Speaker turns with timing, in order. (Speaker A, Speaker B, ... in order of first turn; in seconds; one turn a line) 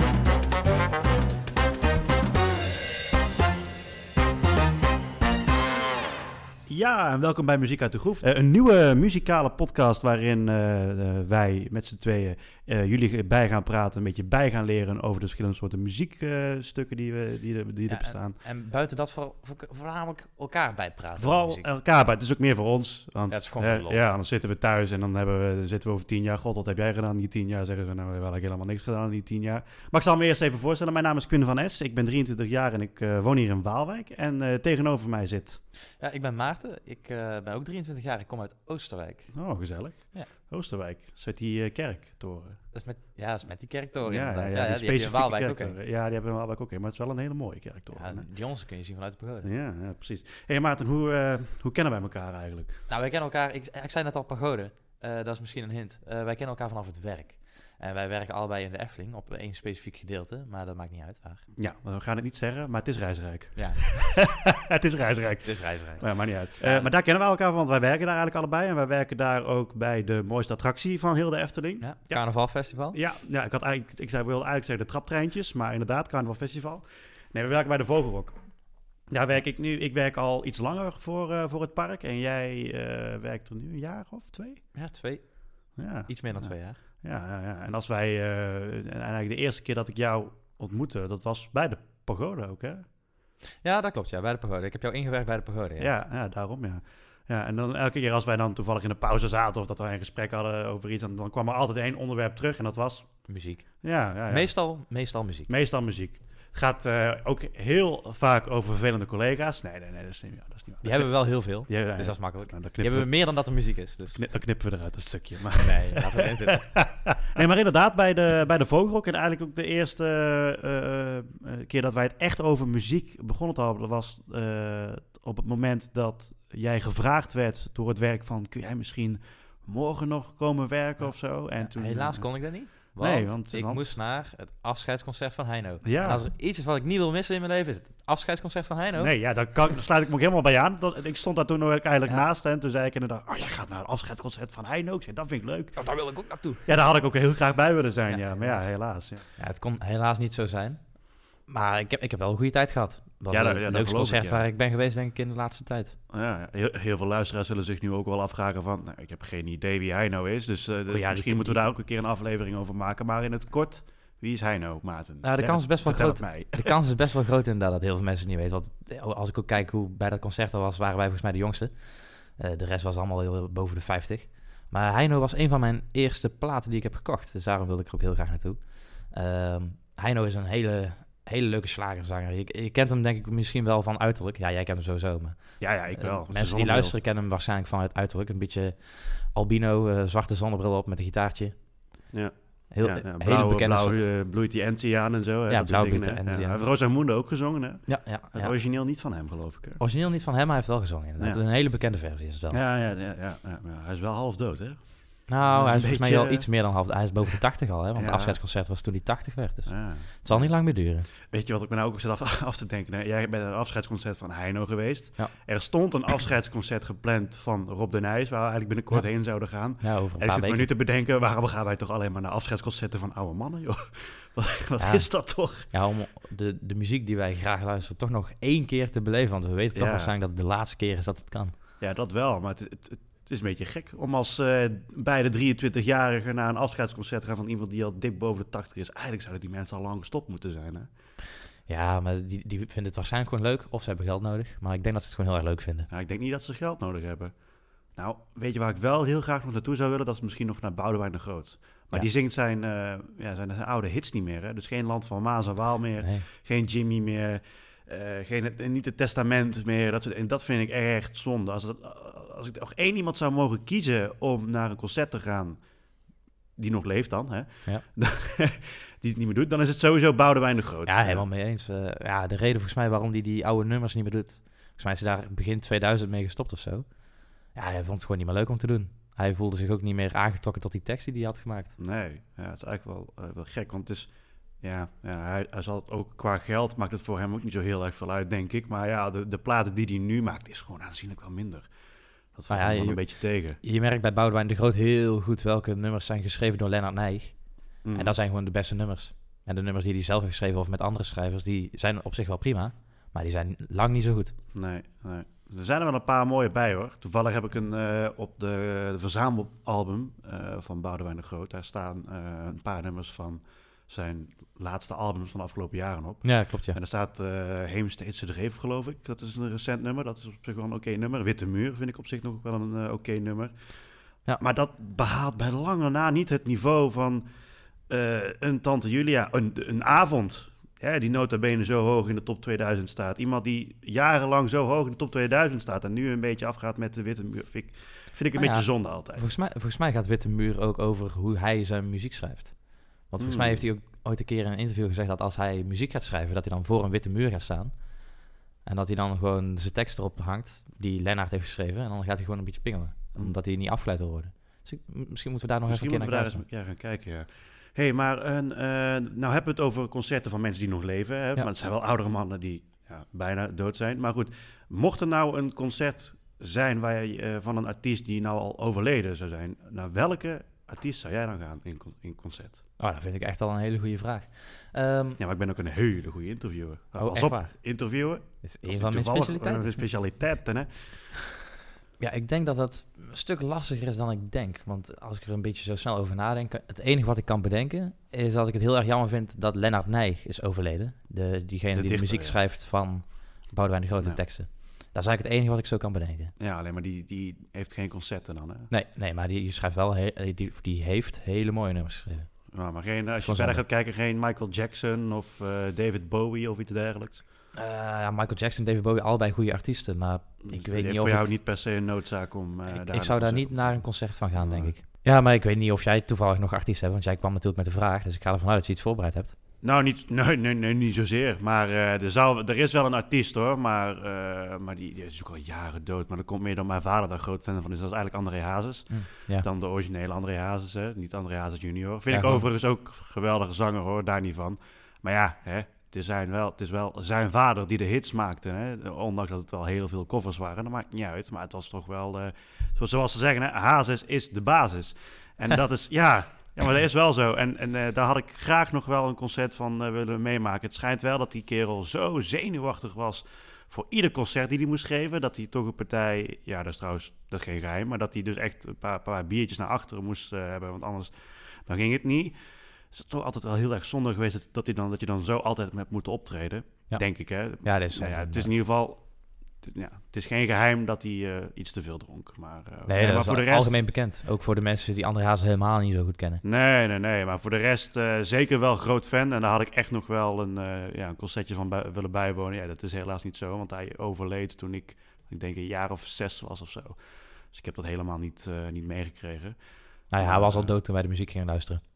Speaker A: 6.7-18.4
Speaker B: 17.9-21.7
Speaker A: 21.2-35.6
Speaker B: 23.3-24.1
Speaker B: 36.0-39.3
Speaker A: 39.3-42.6
Speaker B: 42.7-45.8
Speaker A: 44.0-48.3
Speaker B: 47.9-49.5
Speaker A: 49.4-52.8
Speaker B: 52.9-61.4
Speaker A: 61.5-72.2
Speaker B: 63.5-63.8
Speaker B: 65.4-66.9
Speaker B: 71.8-73.0
Speaker A: 72.9-78.4
Speaker A: 79.1-84.6
Speaker B: 84.7-85.2
Speaker A: 85.8-92.8
Speaker B: 86.1-86.8
Speaker B: 93.6-95.9
Speaker A: 95.8-103.1
Speaker B: 103.3-105.5
Speaker A: 103.8-104.5
Speaker A: 105.5-113.1
Speaker B: 110.8-114.2
Speaker A: 114.1-132.3
Speaker B: 115.5-116.6
Speaker B: 131.0-139.1
Speaker A: 132.9-133.9
Speaker A: 135.8-136.2
Speaker A: 139.0-145.8
Speaker B: 145.8-146.6
Speaker A: 146.7-149.2
Speaker B: 148.1-148.7
Speaker B: 149.4-150.8
Speaker B: 151.5-155.9
Speaker A: 153.3-154.4
Speaker A: 156.1-166.8
Speaker B: 160.9-161.6
Speaker B: 165.2-191.6
Speaker A: 185.6-186.9
Speaker A: 192.1-199.8
Speaker B: 192.7-194.0
Speaker B: 195.5-196.6
Speaker B: 197.9-198.5
Speaker B: 199.8-202.6
Speaker A: 202.5-206.5
Speaker B: 205.3-211.1
Speaker A: 207.9-208.4
Speaker A: 209.7-210.5
Speaker A: 211.3-225.7
Speaker B: 219.8-220.7
Speaker B: 224.8-225.1
Speaker B: 225.6-231.5
Speaker A: 229.7-230.1
Speaker A: 231.8-240.9
Speaker B: 241.7-245.9
Speaker A: 245.9-247.3
Speaker A: 247.9-265.6
Speaker B: 256.0-256.3
Speaker A: 266.6-271.2
Speaker B: 270.9-276.9
Speaker B: 277.5-281.8
Speaker A: 281.8-284.1
Speaker A: 284.6-291.7
Speaker A: 292.3-293.6
Speaker B: 292.5-293.0
Speaker B: 293.6-297.4
Speaker A: 297.8-298.1
Speaker B: 297.9-304.3
Speaker A: 304.5-323.5
Speaker B: 316.2-316.8
Speaker A: 324.4-327.2
Speaker A: 327.9-339.3
Speaker B: 338.3-347.8
Speaker A: 343.2-343.6
Speaker B: 348.6-356.4
Speaker A: 355.7-372.6
Speaker B: 372.8-375.2
Speaker A: 375.2-380.9
Speaker B: 377.0-377.5
Speaker B: 378.4-379.8
Speaker B: 382.0-396.3
Speaker A: 391.7-392.4
Speaker A: 396.4-398.7
Speaker B: 398.7-402.3
Speaker A: 402.5-407.2
Speaker B: 403.2-403.6
Speaker B: 407.5-411.3
Speaker A: 410.4-413.8
Speaker B: 412.7-419.4
Speaker A: 414.3-414.7
Speaker A: 419.6-462.4
Speaker B: 428.9-429.5
Speaker B: 432.1-432.4
Speaker A: 462.9-469.0
Speaker B: 466.9-468.5
Speaker A: 469.6-473.7
Speaker B: 472.9-476.4
Speaker A: 476.4-487.0
Speaker A: 487.5-489.6
Speaker B: 490.1-491.8
Speaker A: 490.2-490.7